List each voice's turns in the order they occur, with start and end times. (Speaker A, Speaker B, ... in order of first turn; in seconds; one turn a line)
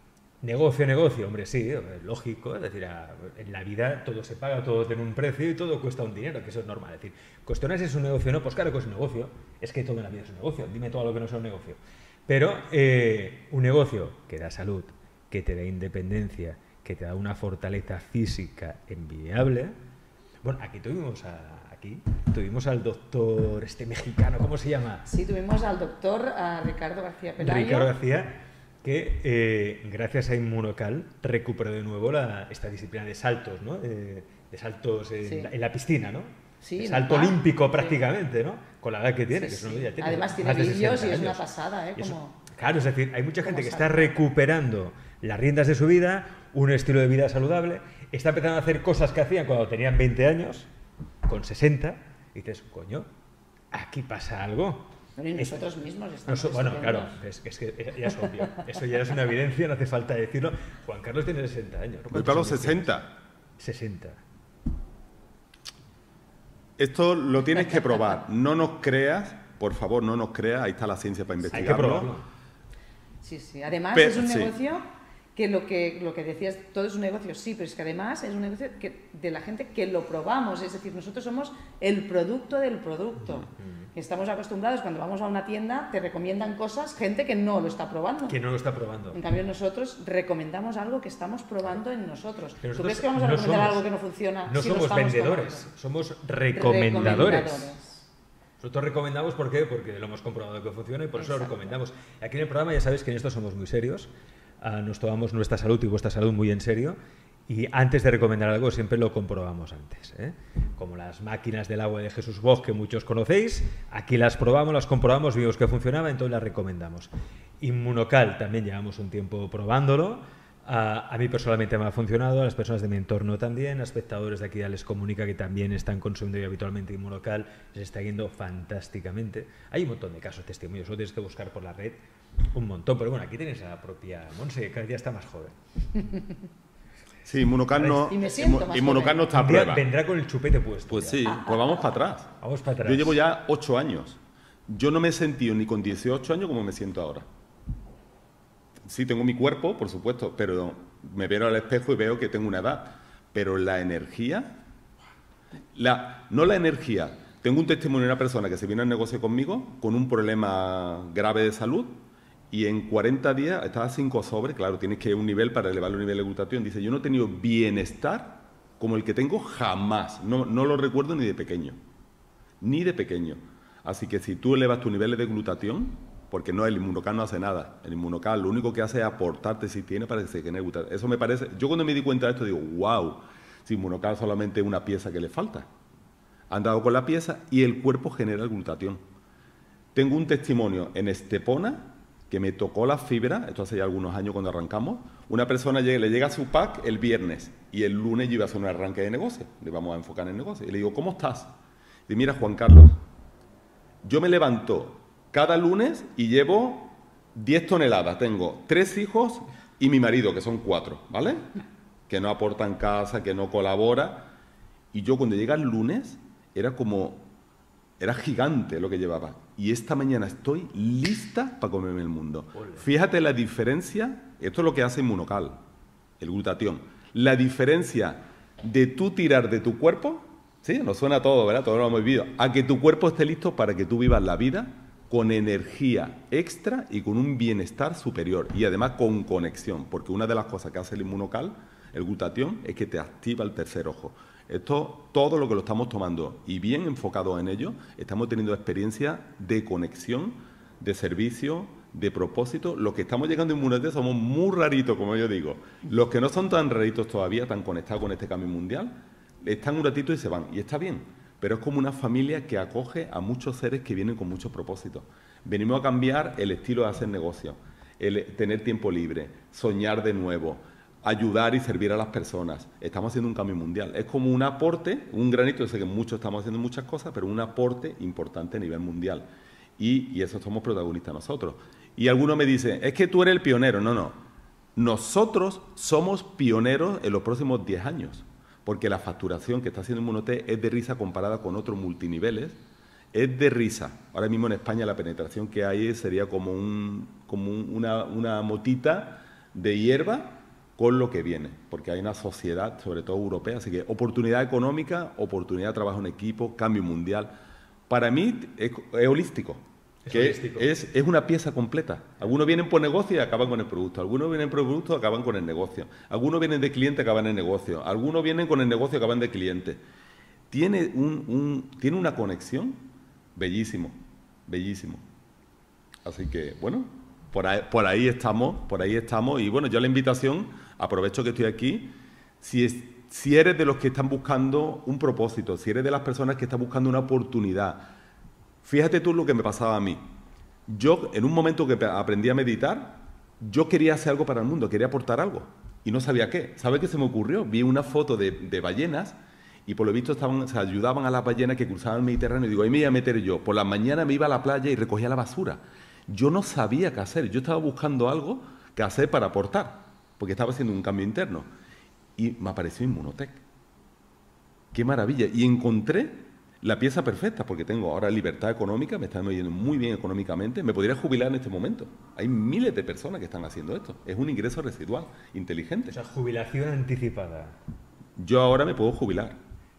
Speaker A: 0.4-19.7
Speaker A: 20.4-25.1
Speaker B: 25.1-27.9
Speaker A: 27.4-41.4
Speaker B: 35.2-35.5
Speaker B: 36.6-38.0
Speaker B: 39.3-42.5
Speaker A: 42.0-50.7
Speaker B: 43.4-44.1
Speaker A: 51.2-53.1
Speaker A: 53.7-55.6
Speaker B: 55.2-57.1
Speaker A: 56.2-62.9
Speaker C: 62.1-63.1
Speaker A: 63.6-64.2
Speaker C: 66.8-72.1
Speaker A: 71.5-72.2
Speaker B: 73.2-88.4
Speaker C: 73.9-74.5
Speaker A: 83.6-83.9
Speaker A: 88.3-89.2
Speaker B: 89.1-95.7
Speaker A: 92.6-93.8
Speaker A: 94.5-97.7
Speaker B: 96.5-98.1
Speaker A: 98.6-135.6
Speaker B: 101.2-101.7
Speaker C: 137.2-139.8
Speaker B: 137.9-139.3
Speaker A: 139.3-141.2
Speaker C: 140.9-147.2
Speaker B: 141.2-141.7
Speaker A: 142.4-143.2
Speaker C: 148.8-154.6
Speaker C: 155.7-171.8
Speaker C: 172.6-185.7
Speaker C: 186.5-189.0
Speaker C: 189.9-201.5
Speaker C: 202.1-203.0
Speaker C: 204.0-211.5
Speaker C: 212.1-214.3
Speaker C: 214.9-217.3
Speaker C: 218.0-225.6
Speaker C: 226.2-284.2
Speaker C: 284.8-292.6
Speaker C: 293.1-307.3
Speaker C: 307.9-319.8
Speaker A: 310.0-310.7
Speaker C: 320.5-325.0
Speaker C: 326.0-337.9
Speaker C: 338.6-340.0
Speaker C: 340.7-361.5
Speaker C: 362.2-363.4
Speaker C: 364.7-375.9
Speaker A: 375.9-377.6
Speaker C: 378.2-379.4